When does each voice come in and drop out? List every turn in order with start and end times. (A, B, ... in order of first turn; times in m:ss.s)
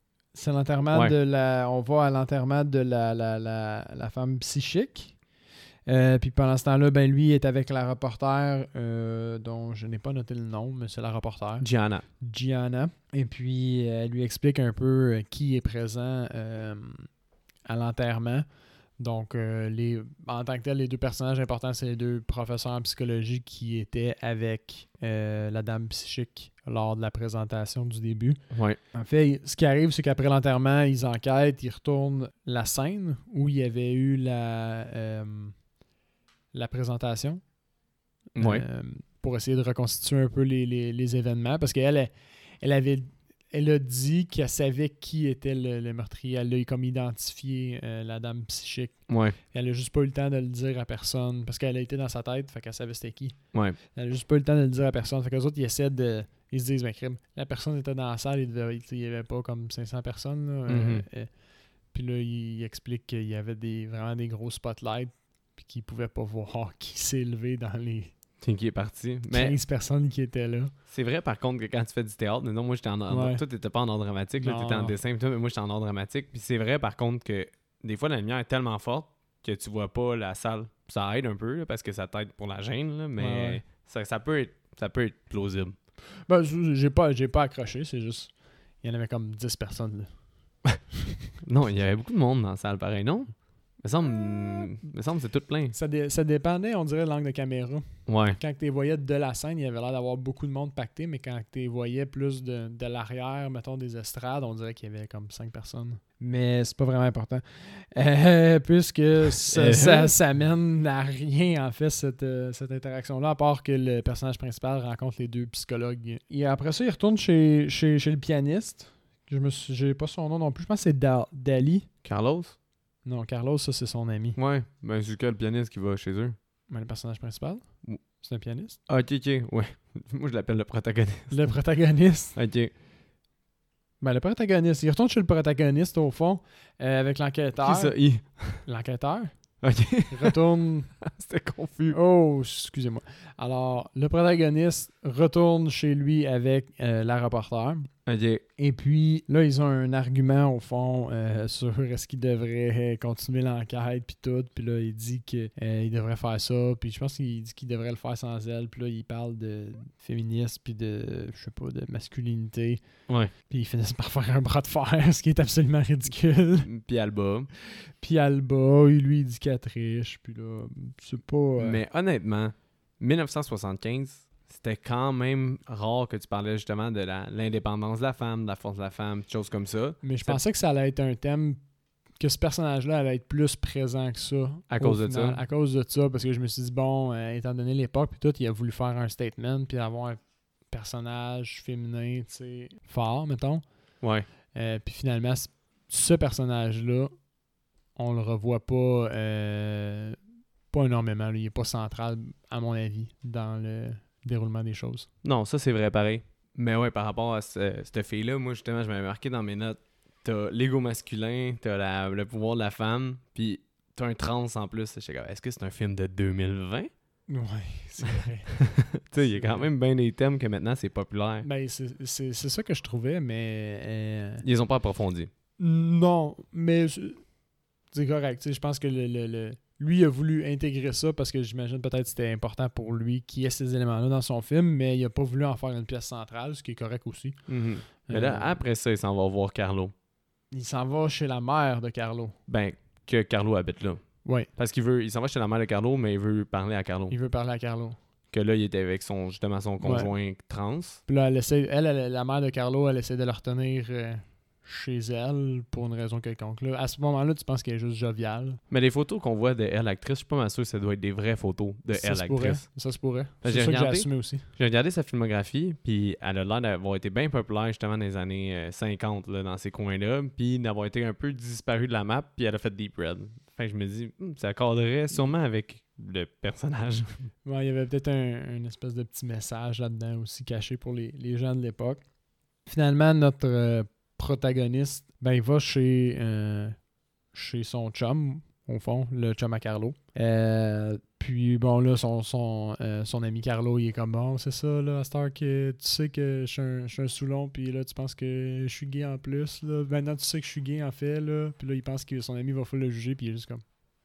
0:00.3-0:05.2 A
0:05.9-0:11.7 A
0:11.6-0:12.0 B
0:12.2-0:17.1 A
0:17.6-0:18.5 A
0:19.0-0:35.6 A
0:28.5-0:28.8 B
0:36.5-0:37.4 A
0:38.4-1:08.1 A
0:38.4-0:38.6 B
0:49.1-0:49.4 B
1:00.7-1:01.0 B
1:08.4-1:09.6 B
1:09.3-1:10.7 A
1:10.9-1:25.8 B
1:13.1-1:13.4 A
1:14.4-1:15.0 A
1:23.2-1:23.6 A
1:26.2-1:30.2 A
1:31.4-1:35.8 B
1:35.7-2:01.9 A
1:38.1-1:38.4 B
1:49.5-1:50.2 B
2:02.0-2:02.6 B
2:03.0-2:04.4 A
2:04.4-2:06.4 B
2:06.7-2:08.8 A
2:08.9-2:11.4 B
2:11.3-2:12.4 A
2:12.4-2:12.7 B
2:14.0-2:19.5 A
2:17.6-2:18.6 B
2:19.6-2:20.4 B
2:20.1-2:21.0 A
2:21.0-2:22.0 B
2:21.9-2:27.9 A
2:28.1-2:28.4 B
2:28.6-2:42.8 A
2:43.4-2:46.7 A
2:46.6-2:47.5 B
2:48.0-2:51.8 A
2:51.6-3:00.4 B
3:00.0-3:01.6 A
3:02.2-3:13.6 A
3:04.7-3:05.4 B
3:14.0-3:14.3 B
3:14.5-3:17.2 A
3:18.0-3:20.2 A
3:20.7-3:25.1 A
3:25.2-3:36.9 B
3:37.3-3:39.7 A
3:38.8-3:41.5 B
3:41.4-3:44.4 A
3:44.4-3:45.3 B
3:45.6-3:47.3 A
3:47.9-3:58.6 A
3:57.5-3:59.9 B
4:00.5-4:02.4 A
4:02.5-4:07.1 B
4:07.1-4:08.0 A
4:08.3-4:11.0 B
4:09.8-4:10.1 A
4:11.1-4:18.6 A
4:18.7-4:22.9 B
4:21.9-4:24.5 A
4:23.4-4:37.3 B
4:37.4-4:42.0 A
4:42.7-4:46.8 A
4:47.3-5:03.6 A